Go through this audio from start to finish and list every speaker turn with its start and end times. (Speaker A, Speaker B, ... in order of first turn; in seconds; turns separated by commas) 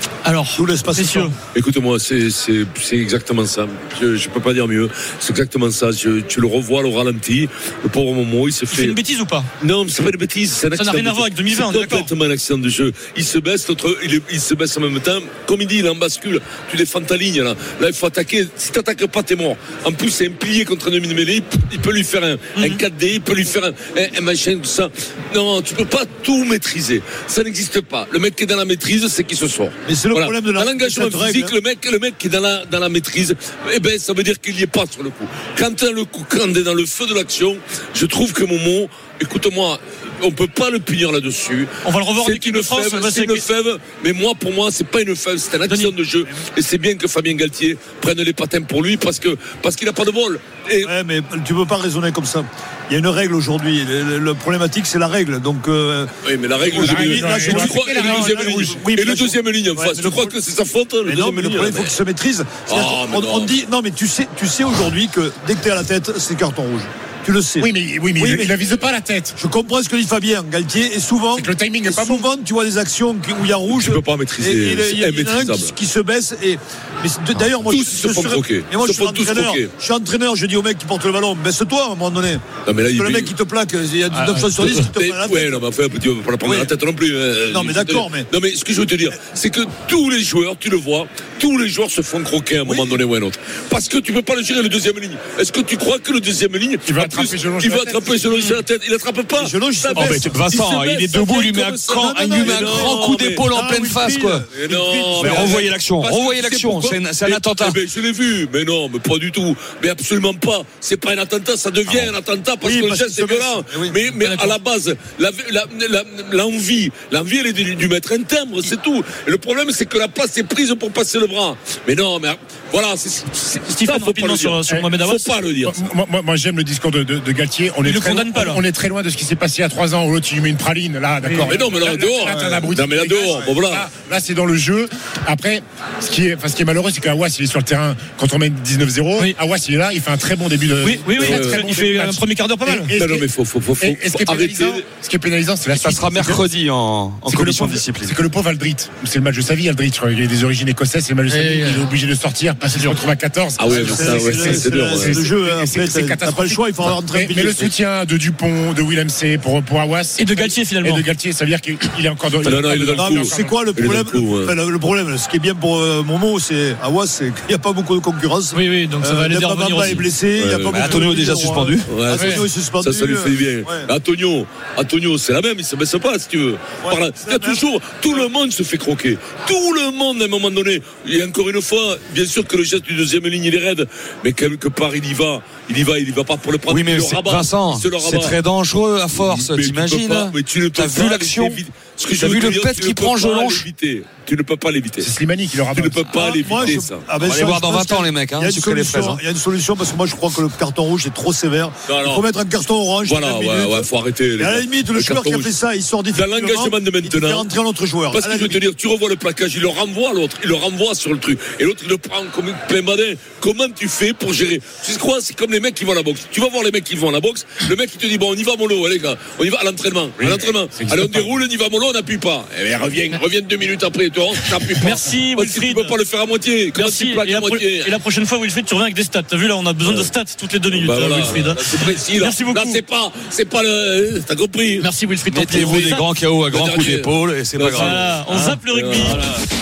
Speaker A: 0.2-1.4, Speaker B: 0.6-1.3, Speaker C: 1.5-9.0, Speaker A: 8.7-9.5, Speaker C: 9.6-50.9, Speaker A: 10.7-12.1, Speaker B: 29.9-31.6, Speaker A: 41.8-43.5, Speaker A: 45.7-45.9, Speaker B: 50.8-60.4, Speaker C: 56.2-62.0, Speaker D: 56.7-58.8, Speaker B: 61.0-68.5, Speaker C: 62.6-63.6, Speaker D: 67.6-69.4, Speaker B: 69.4-85.7, Speaker D: 71.4-72.2, Speaker C: 73.7-75.8, Speaker C: 77.3-79.7, Speaker C: 82.7-83.3, Speaker C: 84.3-103.5, Speaker B: 86.4-86.7, Speaker B: 87.5-88.3, Speaker B: 92.6-93.0, Speaker D: 96.9-98.2, Speaker B: 99.4-100.4, Speaker E: 99.9-104.5, Speaker B: 102.0-105.7, Speaker C: 104.5-125.8, Speaker E: 105.1-107.8, Speaker B: 112.6-114.0, Speaker A: 114.2-114.6, Speaker A: 123.7-125.3, Speaker D: 125.7-146.4, Speaker A: 127.8-128.6, Speaker C: 131.3-133.9, Speaker B: 132.3-132.7, Speaker A: 140.8-143.0, Speaker C: 141.2-141.6, Speaker C: 142.9-144.8, Speaker E: 145.7-148.2, Speaker D: 147.3-163.9, Speaker A: 151.3-151.8, Speaker A: 152.6-153.0, Speaker C: 153.6-155.3, Speaker B: 153.7-157.7, Speaker A: 160.2-161.1, Speaker C: 162.4-164.6, Speaker B: 162.9-173.9, Speaker A: 168.5-170.1, Speaker C: 169.8-171.0, Speaker E: 170.7-172.0, Speaker C: 171.8-188.4, Speaker B: 176.8-178.2, Speaker E: 186.7-191.6, Speaker C: 189.1-195.1, Speaker E: 192.1-193.7, Speaker D: 195.0-196.0, Speaker C: 195.7-197.1, Speaker E: 196.1-199.2, Speaker B: 196.2-208.6, Speaker C: 201.8-202.3, Speaker C: 203.0-205.6, Speaker C: 206.1-207.5, Speaker C: 208.1-228.0, Speaker D: 220.2-221.4, Speaker A: 224.8-225.9, Speaker A: 226.7-232.8, Speaker C: 229.8-230.1, Speaker C: 230.7-234.9, Speaker A: 234.8-236.0, Speaker E: 235.3-238.5, Speaker C: 235.4-239.2, Speaker A: 237.8-239.3